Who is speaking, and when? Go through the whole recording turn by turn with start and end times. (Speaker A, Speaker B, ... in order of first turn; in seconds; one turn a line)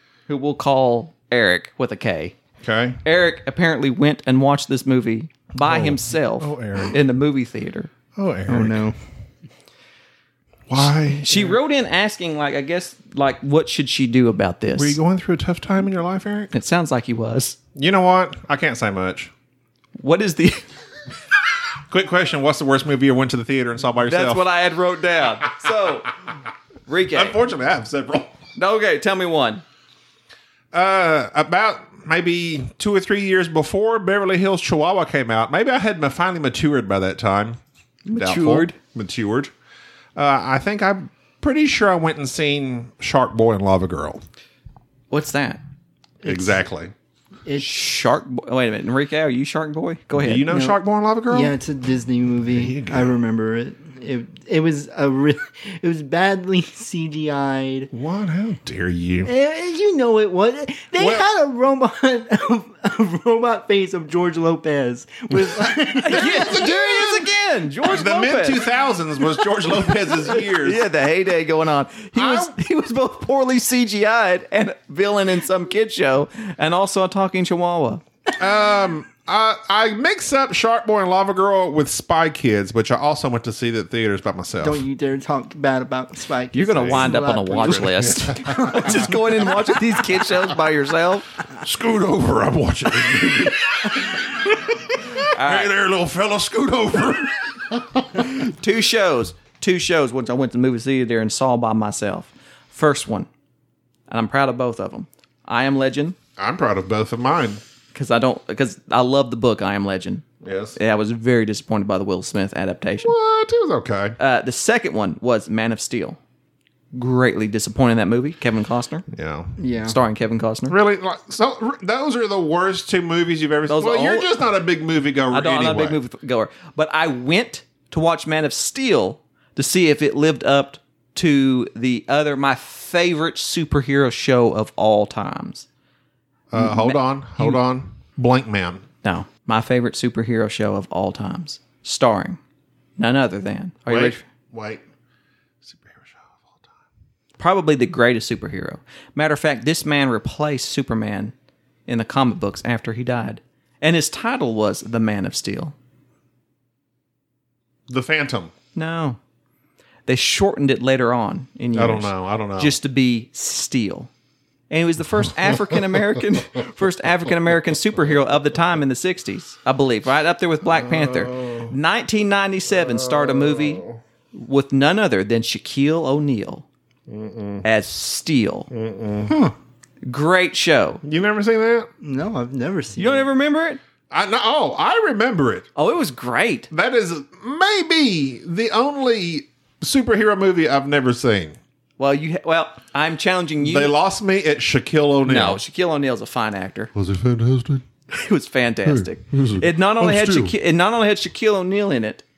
Speaker A: 0.3-2.4
Speaker B: 2.6-3.0
Speaker A: 3.0-7.9
Speaker B: 5.6-7.0
Speaker B: 8.2-8.8
Speaker C: 8.5-8.9
Speaker B: 10.7-11.5
Speaker A: 11.2-15.0
Speaker B: 14.8-16.5
Speaker A: 16.5-17.6
Speaker B: 17.8-19.3
Speaker A: 20.0-20.6
Speaker B: 21.9-24.4
Speaker A: 24.0-26.1
Speaker A: 26.9-27.4
Speaker B: 27.1-28.3
Speaker A: 28.6-29.6
Speaker B: 30.7-37.6
Speaker A: 38.0-38.8
Speaker B: 38.1-39.5
Speaker B: 40.2-44.2
Speaker A: 45.1-45.6
Speaker C: 46.2-46.6
Speaker B: 46.2-46.9
Speaker C: 47.5-47.7
Speaker A: 47.6-50.5
Speaker B: 50.2-51.5
Speaker C: 50.5-50.8
Speaker C: 51.3-57.9
Speaker B: 52.5-53.1
Speaker B: 57.9-59.3
Speaker C: 59.2-66.6
Speaker B: 61.0-61.3
Speaker B: 65.5-67.3
Speaker A: 66.0-68.6
Speaker B: 67.8-70.8
Speaker A: 69.8-78.0
Speaker B: 72.1-72.5
Speaker B: 78.4-84.8
Speaker C: 84.6-89.7
Speaker A: 86.5-91.3
Speaker B: 86.7-88.5
Speaker B: 91.6-98.4
Speaker A: 95.2-95.7
Speaker A: 98.4-103.3
Speaker A: 104.1-106.2
Speaker B: 106.4-107.6
Speaker A: 107.9-110.2
Speaker B: 110.4-110.8
Speaker A: 110.8-113.1
Speaker B: 113.0-114.2
Speaker A: 114.2-116.2
Speaker A: 116.9-119.1
Speaker B: 119.1-119.5
Speaker C: 119.6-120.0
Speaker A: 119.8-120.8
Speaker B: 120.7-126.0
Speaker A: 123.7-124.3
Speaker A: 125.3-135.7
Speaker B: 136.5-138.9
Speaker A: 136.6-137.6
Speaker A: 139.0-142.4
Speaker A: 143.0-144.2
Speaker B: 143.9-144.8
Speaker B: 145.6-146.8
Speaker A: 147.4-151.3
Speaker A: 151.9-155.7
Speaker B: 157.9-158.5
Speaker A: 158.8-159.2
Speaker A: 160.1-164.1
Speaker B: 161.7-162.8
Speaker A: 164.7-173.8
Speaker B: 170.7-171.7
Speaker B: 172.7-174.0
Speaker A: 174.3-176.7
Speaker B: 177.1-177.7
Speaker A: 177.6-178.7
Speaker B: 178.7-179.6
Speaker A: 180.0-181.0
Speaker B: 181.0-181.9
Speaker C: 182.0-183.3
Speaker A: 183.0-183.8
Speaker B: 184.1-185.7
Speaker A: 185.8-186.7
Speaker B: 186.7-191.6
Speaker A: 192.0-193.9
Speaker B: 193.6-195.6
Speaker A: 195.2-196.9
Speaker B: 196.9-197.8
Speaker A: 198.1-202.2
Speaker B: 198.9-200.6